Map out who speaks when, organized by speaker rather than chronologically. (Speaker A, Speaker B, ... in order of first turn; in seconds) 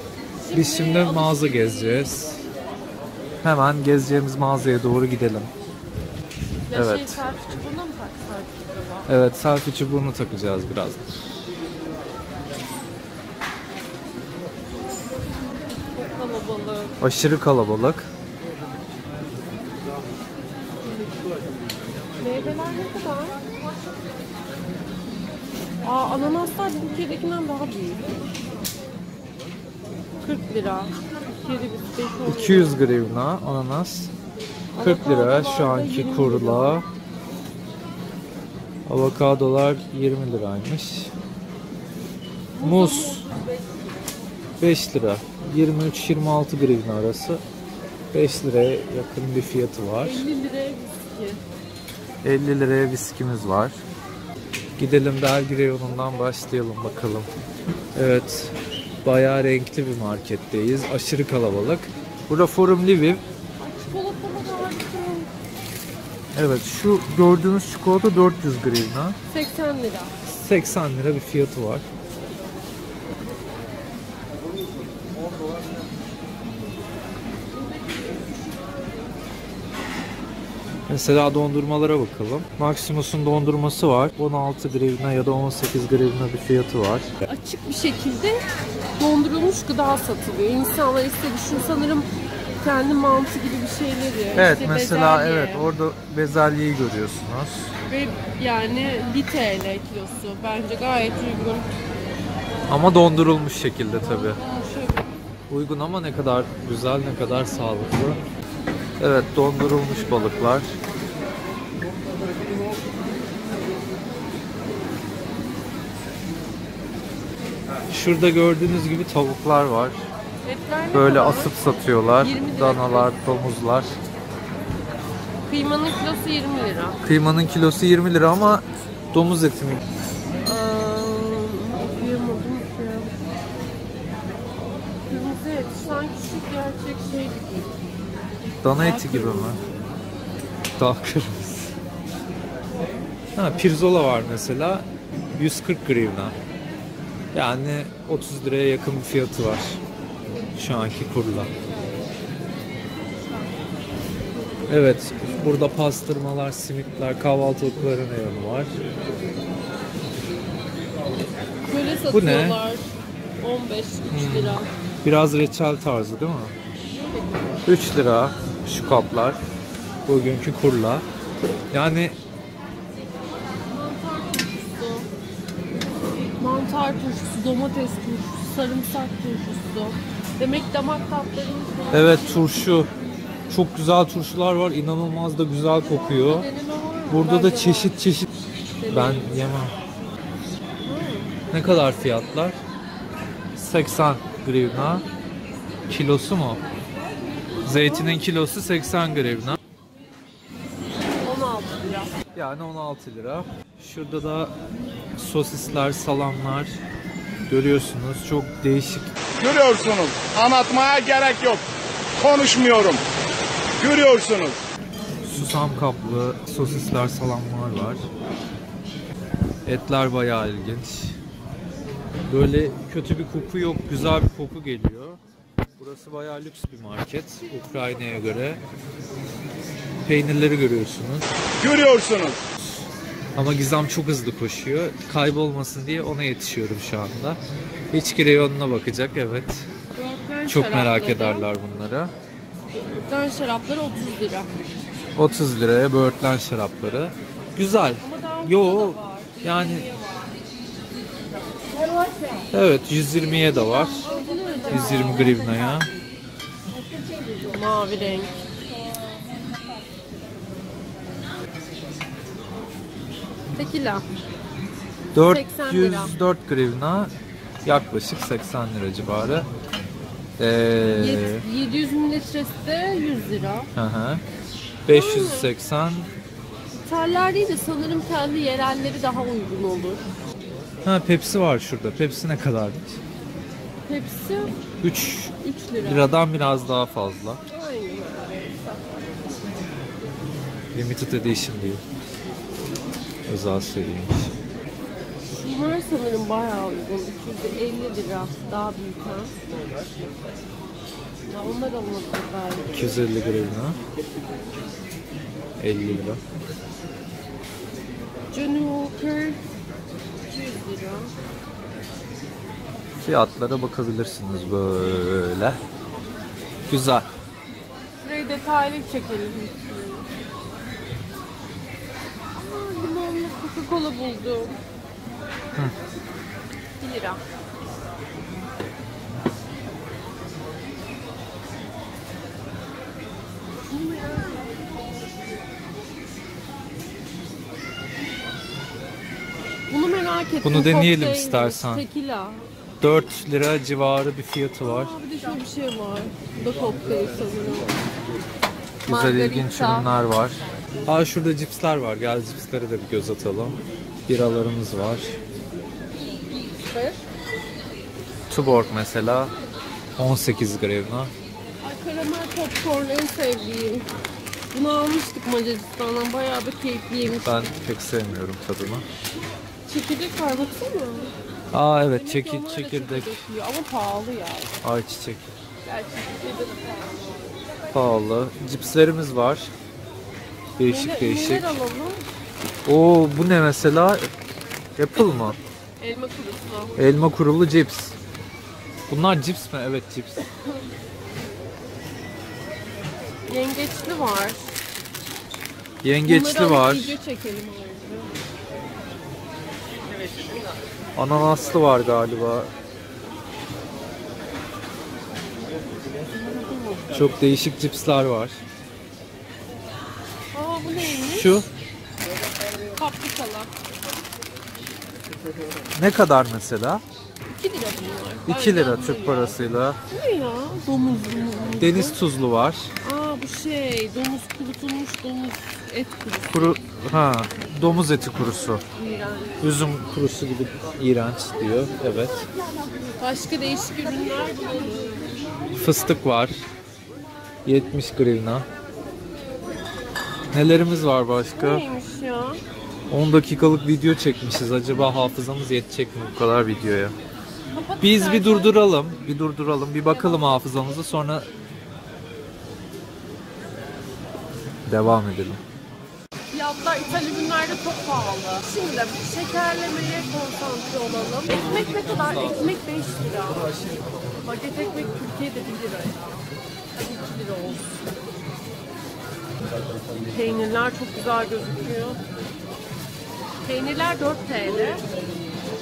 Speaker A: 0.4-2.2, 6.7-9.1, 15.9-17.0, 22.2-23.4, 25.8-28.1, 30.2-32.8, 34.7-36.8, 42.5-44.1, 50.0-51.4, 63.6-65.3, 69.3-70.1, 77.6-79.0, 87.3-88.4, 89.0-92.1, 92.6-95.7, 97.9-101.7, 104.1-105.1, 120.4-121.5, 122.2-123.2, 125.5-127.0, 130.4-133.1, 135.1-137.7, 138.7-139.7, 161.7-162.9, 163.4-164.7, 167.0-167.6, 173.7-175.1, 176.2-182.4, 185.8-188.0, 188.8-189.5, 190.8-191.3, 197.7-198.2, 201.2-202.1, 227.4-228.4, 239.9-241.5, 243.0-244.5, 248.0-250.3, 254.0-255.8, 257.5-258.3, 263.5-264.1, 265.2-266.2, 270.8-273.7, 274.9-275.5, 276.8-280.0, 283.9-284.6, 285.4-286.1, 287.5-289.1, 295.3-299.3, 301.3-302.9, 308.3-309.4, 310.3-311.1, 318.0-320.1, 322.4-324.6, 326.8-327.2, 333.6-334.6, 339.7-342.4, 344.6-347.8, 348.9-349.9, 356.5-357.1, 361.6-363.9, 364.5-367.6, 369.7-371.1, 371.9-374.5, 375.6-377.4, 380.7-382.1, 385.8-386.9, 393.3-394.5, 396.1-398.1, 406.0-407.0, 410.3-411.4, 412.7-413.5, 417.3-419.4, 419.9-422.0, 422.8-426.6, 428.7-429.4, 433.0-435.4, 441.4-442.4, 447.5-448.6, 449.9-450.6, 456.3-463.5, 464.2-467.8, 470.1-472.0, 473.4-474.9
Speaker B: 0.5-2.4, 3.4-5.5, 6.7-7.2, 9.1-11.1, 17.0-18.1, 32.2-34.1, 34.8-36.9, 38.9-41.1, 42.6-43.3, 44.6-47.4, 48.1-50.3, 52.2-53.8, 54.8-57.3, 58.0-63.2, 66.3-69.2, 70.2-71.8, 80.9-87.1, 94.3-97.7, 102.7-104.4, 105.5-108.2, 109.0-110.8, 117.9-120.0, 120.9-124.0, 127.0-129.8, 138.6-139.6, 140.8-141.7, 143.4-146.4, 147.3-149.8, 150.6-151.5, 154.7-158.7, 162.1-162.6, 164.1-166.5, 167.7-169.4, 170.1-171.1, 171.7-172.2, 181.9-182.9, 183.5-186.5, 187.1-188.3, 188.9-189.8, 191.5-192.6, 193.6-195.1, 195.9-196.6, 197.7-199.6, 202.3-204.5, 205.2-206.8, 207.5-209.2, 215.2-218.1, 219.7-221.2, 222.3-225.2, 225.8-228.6, 230.1-231.3, 233.3-237.4, 237.9-239.7, 240.5-242.1, 245.2-249.9, 252.5-254.1, 254.7-255.9, 265.1-267.1, 267.6-269.5, 270.4-271.4, 273.8-274.2, 274.9-276.1, 280.8-283.0, 284.8-287.4, 290.7-291.8, 293.3-294.3, 302.7-303.8, 305.6-306.2, 313.0-315.6, 316.7-317.1, 340.4-341.8, 342.8-344.9, 348.9-355.2, 358.3-359.3, 360.0-361.1, 367.2-368.9, 371.5-373.1, 374.6-375.3, 377.7-379.5, 380.6-381.6, 382.7-384.1, 384.8-385.4, 386.8-388.0, 388.9-390.2, 395.8-396.9, 401.0-402.5, 406.9-408.4, 410.8-411.5, 415.8-416.8, 418.3-419.8, 421.6-422.7, 426.3-428.6, 429.4-432.2, 435.5-436.4, 437.4-438.5, 440.3-441.6, 442.9-446.9, 447.8-451.3, 454.7-455.4, 461.2-462.6, 463.2-464.3, 469.5-470.4
Speaker C: 209.4-211.6, 212.2-213.0, 213.8-214.6, 231.7-232.3